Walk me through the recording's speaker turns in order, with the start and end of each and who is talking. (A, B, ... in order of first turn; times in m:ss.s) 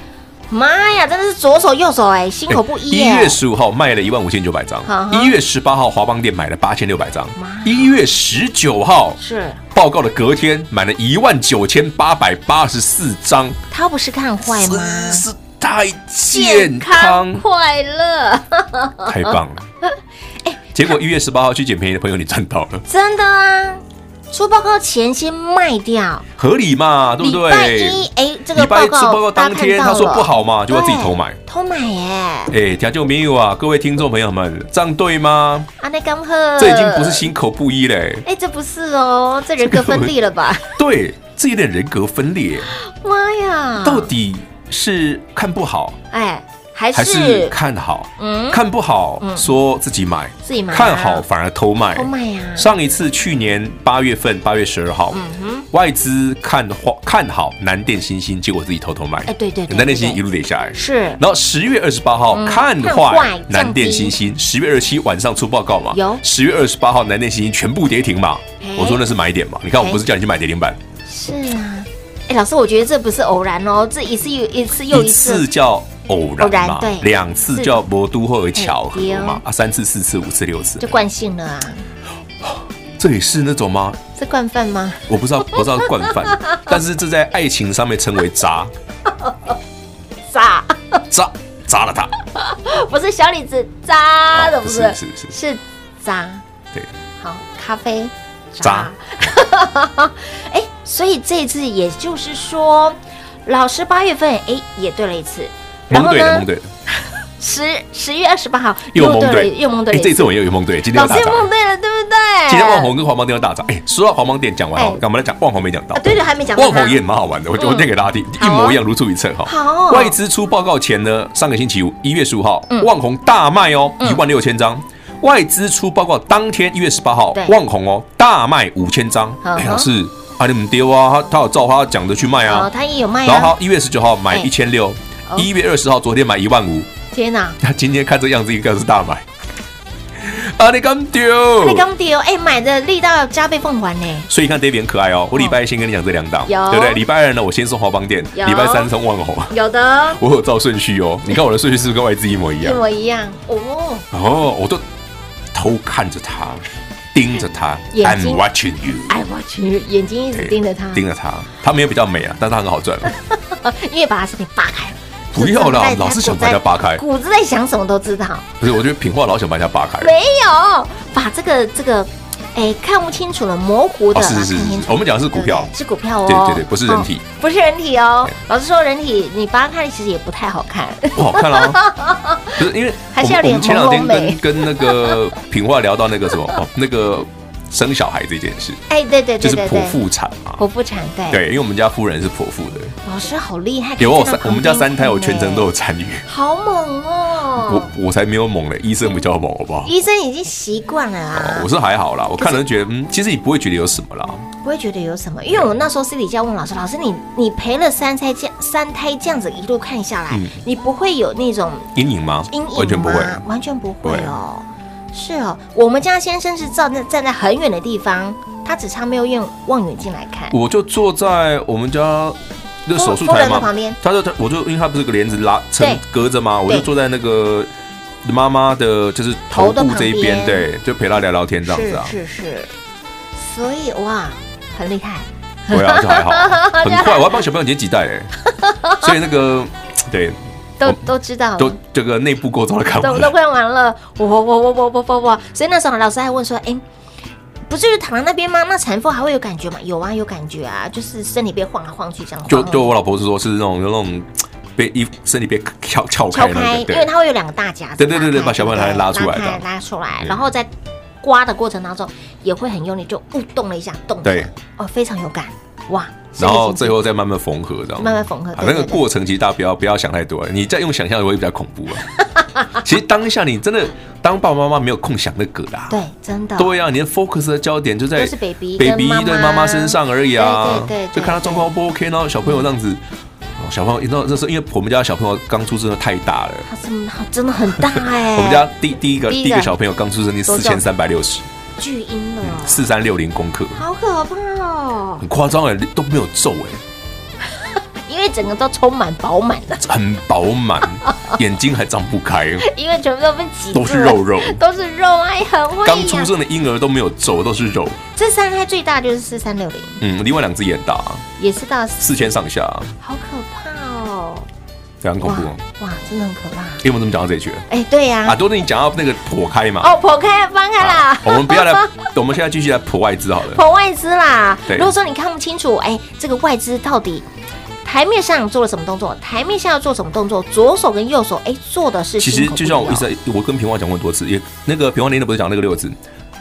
0:00.5-0:03.4 A
0:02.5-0:09.2 B
0:04.8-0:05.4 A
0:07.4-0:08.0 A
0:09.2-0:09.6 A
0:09.7-0:13.6 B
0:13.7-0:15.3 A
0:14.4-0:17.4 B
0:16.3-0:19.3 A
0:19.0-0:19.6 B
0:20.7-0:22.8 B
0:22.9-0:26.2 A
0:26.4-0:31.4 B
0:27.2-0:32.5 A
0:32.5-0:35.7 B
0:35.8-0:37.3 A
0:36.6-0:38.2 B
0:38.2-0:40.8 A
0:39.6-0:40.1 B
0:40.8-0:42.7 B
0:42.7-0:44.1 A
0:43.8-0:46.0 B
0:46.1-0:47.5 A
0:46.9-0:55.2 B
0:48.2-0:48.6 A
0:49.2-0:49.5 A
0:50.4-0:51.2 A
0:51.9-0:52.7 A
0:55.1-0:55.7 A
0:55.7-1:10.8 B
0:59.3-1:00.2 A
1:00.7-1:01.2 A
1:02.3-1:04.2 A
1:05.9-1:06.2 A
1:08.6-1:09.0 A
1:11.0-1:15.5 A
1:14.9-1:20.8 B
1:16.4-1:17.8 A
1:18.5-1:19.4 A
1:20.8-1:21.8 A
1:22.4-1:24.0 B
1:24.2-1:26.6 A
1:25.1-1:28.7 B
1:29.2-1:29.5 A
1:30.3-1:31.0 A
1:31.1-1:32.1 B
1:32.4-1:36.4 A
1:34.3-1:35.3 B
1:37.2-1:46.5 A
1:38.6-1:38.9 B
1:45.9-1:46.7 B
1:47.4-1:50.4 A
1:48.9-1:51.5 B
1:50.9-1:52.9 A
1:52.5-2:12.7 B
1:54.8-1:55.0 A
1:55.9-1:57.0 A
1:57.6-1:58.8 A
1:59.4-2:00.2 A
2:07.3-2:07.6 A
2:09.4-2:09.9 A
2:12.4-2:13.5 A
2:13.2-2:16.9 B
2:17.1-2:17.6 A
2:17.6-2:19.2 B
2:20.2-2:21.8 B
2:21.6-2:24.3 A
2:24.3-2:29.5 B
2:26.4-2:27.0 A
2:28.3-2:28.9 A
2:29.5-2:30.2 A
2:30.1-2:32.8 B
2:32.6-2:34.1 A
2:34.1-2:34.8 B
2:35.5-2:39.1 B
2:37.9-2:38.4 A
2:39.1-2:41.0 A
2:40.3-2:43.1 B
2:43.1-2:48.5 A
2:45.3-2:47.0 B
2:48.6-2:50.1 B
2:50.0-3:05.2 A
2:54.1-2:55.7 B
2:56.2-2:57.2 B
3:01.1-3:01.8 B
3:02.6-3:08.8 B
3:08.9-3:10.0 A
3:09.4-3:10.6 B
3:10.6-3:11.4 A
3:11.3-3:12.9 B
3:13.0-3:15.7 A
3:14.0-3:16.2 B
3:16.2-3:17.9 A
3:17.6-3:19.9 B
3:19.8-3:21.7 A
3:21.3-3:24.4 B
3:24.6-3:31.9 A
3:30.3-3:30.6 B
3:31.9-3:33.4 B
3:32.5-3:40.6 A
3:34.0-3:34.3 B
3:40.5-3:47.7 B
3:42.9-3:44.0 A
3:48.2-3:52.1 B
3:49.5-3:50.7 A
3:51.6-3:52.7 A
3:53.3-3:57.4 A
3:55.7-3:58.3 B
3:58.6-3:59.1 A
3:59.0-4:01.0 B
4:00.8-4:01.8 A
4:01.6-4:03.3 B
4:03.0-4:06.8 A
4:07.7-4:12.9 A
4:12.5-4:17.1 B
4:16.3-4:20.7 A
4:18.0-4:19.6 B
4:21.2-4:27.0 A
4:24.2-4:24.5 B
4:26.4-4:32.1 B
4:28.0-4:29.0 A
4:32.8-4:36.0 B
4:35.9-4:36.8 A
4:36.6-4:43.0 B
4:38.2-4:41.7 A
4:43.6-4:46.7 B
4:46.6-4:48.7 A
4:47.8-4:51.4 B
4:49.3-4:49.7 A
4:50.4-4:50.8 A
4:51.8-4:52.9 A
4:52.4-4:53.8 B
4:53.7-4:55.2 A
4:55.2-4:56.8 B
4:58.0-4:59.8 A
4:59.8-5:02.6 B
5:01.0-5:01.4 A
5:02.6-5:06.3 A
5:03.7-5:04.6 B
5:05.8-5:08.0 B
5:08.2-5:10.0 A
5:10.0-5:11.2 B
5:11.4-5:12.1 A
5:12.0-5:12.9 B
5:13.0-5:14.5 A
5:15.0-5:15.6 B
5:15.2-5:16.8 A
5:16.8-5:17.6 B
5:17.7-5:18.4 A
5:18.2-5:19.9 B
5:19.8-5:22.0 A
5:20.8-5:23.6 B
5:23.5-5:27.2 A
5:27.8-5:33.1 A
5:32.2-5:36.0 B